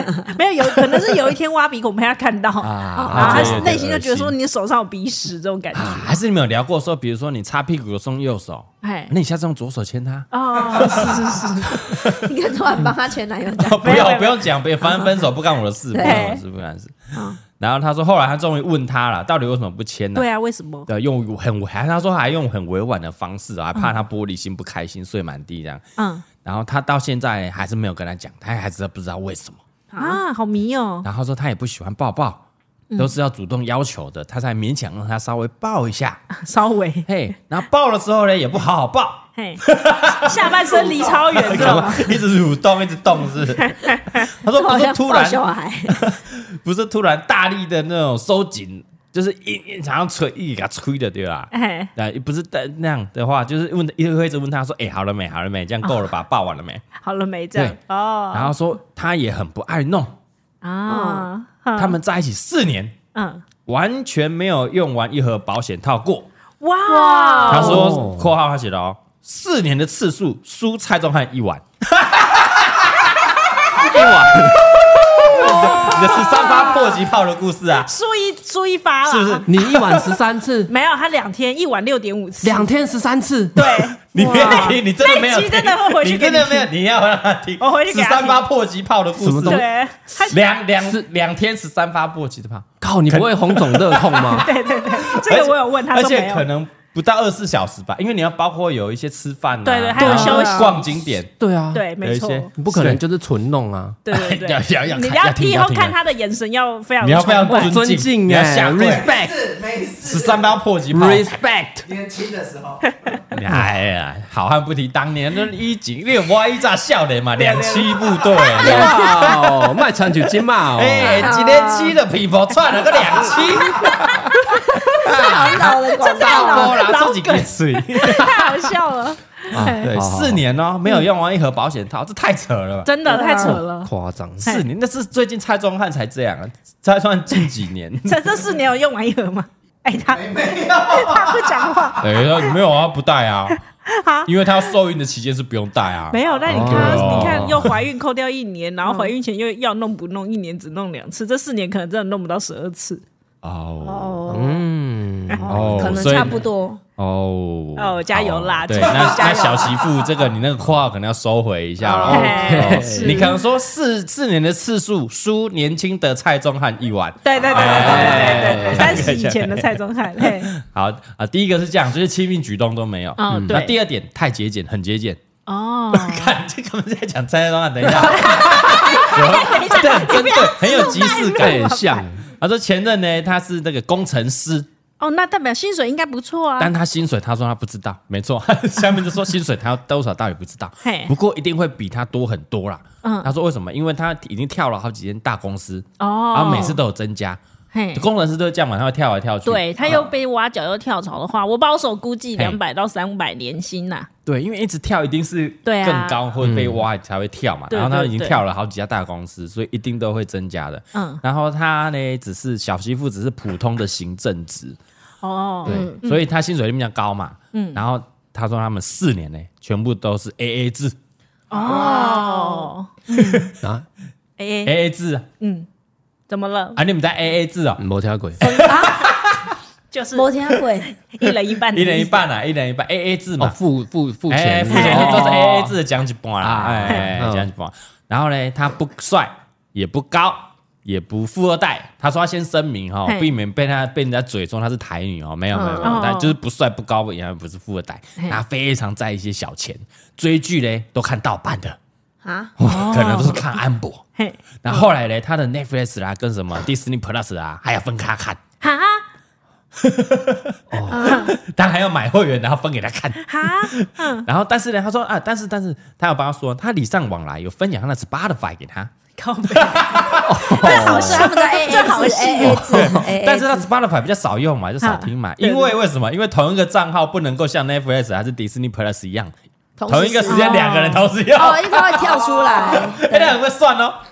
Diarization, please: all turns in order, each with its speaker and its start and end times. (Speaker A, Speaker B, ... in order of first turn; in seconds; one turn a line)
Speaker A: 0.2-6.1
Speaker B: 2.6-3.9
Speaker C: 3.0-4.3
Speaker B: 5.7-12.3
Speaker A: 8.8-9.1
Speaker A: 10.3-11.8
Speaker D: 12.0-14.1
Speaker B: 13.6-20.3
Speaker A: 13.8-15.1
Speaker D: 15.9-16.2
Speaker A: 16.0-16.4
Speaker A: 20.1-20.9
Speaker B: 20.9-25.8
Speaker A: 26.0-26.2
Speaker B: 26.4-29.6
Speaker D: 29.9-30.2
Speaker A: 30.0-31.1
Speaker B: 31.0-32.4
Speaker B: 33.0-36.2
Speaker A: 36.4-37.1
Speaker B: 37.0-56.8
Speaker A: 39.4-39.6
Speaker A: 40.2-42.2
Speaker A: 43.6-44.2
Speaker D: 44.5-46.0
Speaker A: 51.5-51.9
Speaker A: 57.0-58.5
Speaker B: 58.3-60.1
Speaker A: 60.6-62.0
Speaker D: 60.9-61.3
Speaker B: 61.8-63.0
Speaker A: 63.1-63.4
Speaker B: 63.6-66.3
Speaker A: 66.6-68.0
Speaker D: 66.8-67.8
Speaker C: 67.5-68.3
Speaker B: 67.5-77.9
Speaker C: 73.8-74.7
Speaker A: 75.2-77.0
Speaker A: 77.8-79.5
Speaker B: 79.0-80.2
Speaker C: 79.5-80.7
Speaker A: 80.7-82.7
Speaker C: 82.4-83.7
Speaker A: 83.5-86.7
Speaker B: 83.6-89.7
Speaker D: 84.1-84.8
Speaker A: 87.6-88.4
Speaker C: 89.2-89.6
Speaker A: 89.4-90.4
Speaker B: 90.3-101.3
Speaker C: 92.8-94.5
Speaker A: 94.3-96.5
Speaker A: 99.6-100.9
Speaker C: 100.0-100.4
Speaker D: 100.2-100.6
Speaker C: 101.4-101.8
Speaker A: 101.7-102.5
Speaker B: 102.0-103.0
Speaker C: 102.6-104.0
Speaker A: 104.0-107.8
Speaker B: 104.1-106.0
Speaker B: 107.0-109.2
Speaker C: 107.5-109.4
Speaker E: 108.8-110.6
Speaker B: 110.0-111.3
Speaker C: 110.9-111.9
Speaker E: 111.8-113.2
Speaker B: 113.3-128.7
Speaker A: 117.4-119.3
Speaker C: 118.6-121.3
Speaker D: 121.0-122.0
Speaker D: 124.7-126.9
Speaker A: 125.2-129.9
Speaker C: 129.5-130.4
Speaker B: 129.5-132.9
Speaker A: 132.8-133.9
Speaker D: 133.1-133.6
Speaker C: 133.3-134.5
Speaker A: 134.4-134.7
Speaker B: 134.4-138.2
Speaker A: 138.0-142.6
Speaker E: 140.0-141.9
Speaker B: 142.0-143.6
Speaker A: 143.8-144.7
Speaker B: 144.2-147.8
Speaker A: 146.1-153.0
Speaker C: 146.5-147.7
Speaker D: 148.8-149.1
Speaker B: 153.4-154.3
Speaker D: 153.8-154.6
Speaker C: 154.3-156.3
Speaker D: 155.3-156.8
Speaker B: 155.5-156.4
Speaker B: 157.0-175.2
Speaker A: 157.8-159.8
Speaker E: 158.7-159.7
Speaker D: 161.8-162.4
Speaker C: 161.8-163.3
Speaker A: 162.1-163.4
Speaker A: 167.2-170.5
Speaker C: 167.5-169.1
Speaker A: 173.2-173.8
Speaker C: 173.3-173.7
Speaker A: 175.5-176.3
Speaker B: 175.9-181.8
Speaker A: 177.9-182.1
Speaker C: 181.3-182.2
Speaker B: 182.4-184.7
Speaker A: 185.0-186.7
Speaker B: 186.6-197.4
Speaker A: 190.8-191.1
Speaker A: 193.0-193.3
Speaker A: 196.0-196.8
Speaker A: 197.7-198.1
Speaker B: 197.9-200.1
Speaker A: 199.4-204.1
Speaker B: 204.2-214.8
Speaker A: 205.6-206.2
Speaker C: 206.4-206.8
Speaker A: 207.7-208.4
Speaker A: 210.9-211.2
Speaker A: 215.2-216.2
Speaker D: 215.7-216.0
Speaker B: 216.0-220.9
Speaker A: 217.5-217.8
Speaker A: 221.5-223.5
Speaker D: 221.5-222.7
Speaker E: 221.6-221.9
Speaker B: 223.1-223.5
Speaker A: 224.4-224.7
Speaker B: 224.6-225.2
Speaker A: 225.4-225.7
Speaker A: 226.3-226.8
Speaker B: 226.8-227.8
Speaker C: 227.8-228.4
Speaker B: 228.4-229.5
Speaker D: 228.4-229.1
Speaker A: 229.9-232.2
Speaker D: 230.1-230.9
Speaker B: 231.7-233.6
Speaker C: 233.4-235.7
Speaker B: 234.3-251.8
Speaker A: 234.7-235.7
Speaker C: 236.4-237.5
Speaker A: 243.1-243.3
Speaker D: 245.5-246.0
Speaker A: 245.8-246.4
Speaker D: 252.2-252.5
Speaker B: 252.6-254.0
Speaker A: 252.6-253.5
Speaker A: 254.2-254.9
Speaker B: 254.6-258.4
Speaker A: 258.6-259.0
Speaker B: 259.8-268.9
Speaker C: 260.7-261.1
Speaker D: 260.9-261.3
Speaker A: 261.0-261.3
Speaker A: 263.2-264.2
Speaker A: 269.2-272.7
Speaker B: 269.5-271.8
Speaker C: 270.2-271.2
Speaker D: 270.6-273.7
Speaker C: 272.4-273.0
Speaker B: 272.7-279.3
Speaker A: 274.8-275.7
Speaker D: 279.8-280.6
Speaker B: 279.9-284.0
Speaker A: 280.3-281.1
Speaker D: 281.3-283.4